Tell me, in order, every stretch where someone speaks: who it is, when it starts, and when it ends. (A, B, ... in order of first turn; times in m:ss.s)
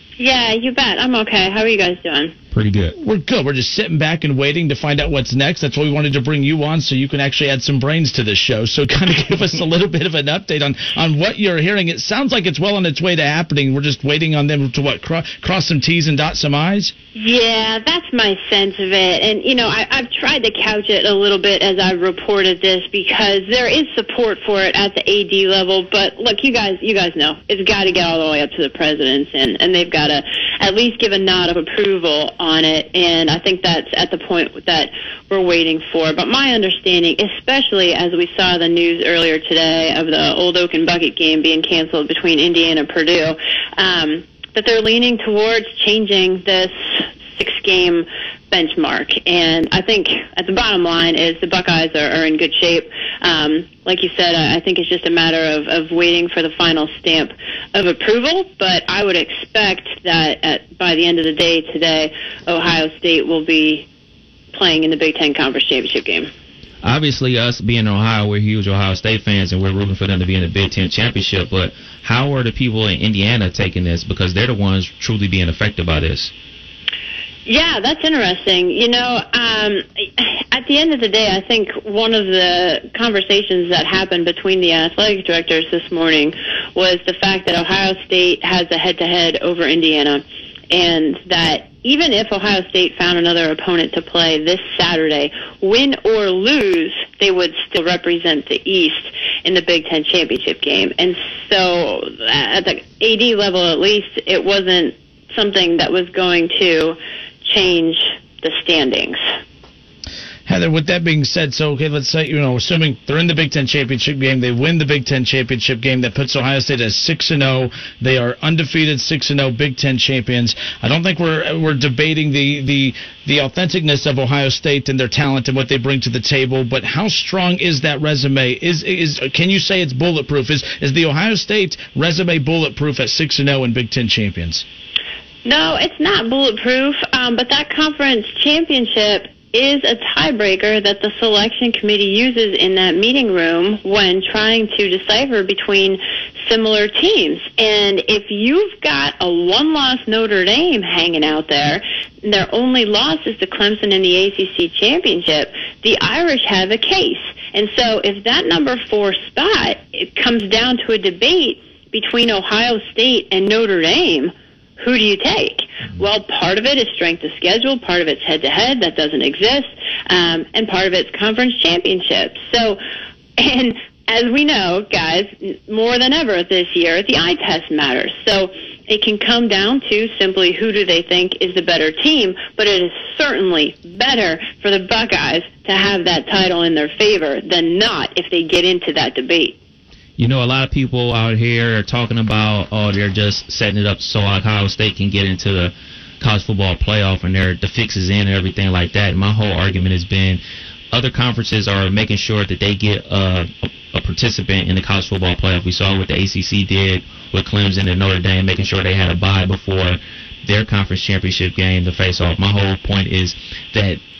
0:00.2-0:02.3 A
0:02.5-0:03.0 B
0:03.0-0:16.9 C
0:17.1-1:03.9 A
1:04.5-1:06.3 A
1:06.8-1:16.3 B
1:17.4-1:49.2 A
1:50.5-2:14.6 C
2:15.4-2:52.8 A
2:53.4-3:09.6 A
3:10.2-3:20.4 B
3:20.9-3:34.0 B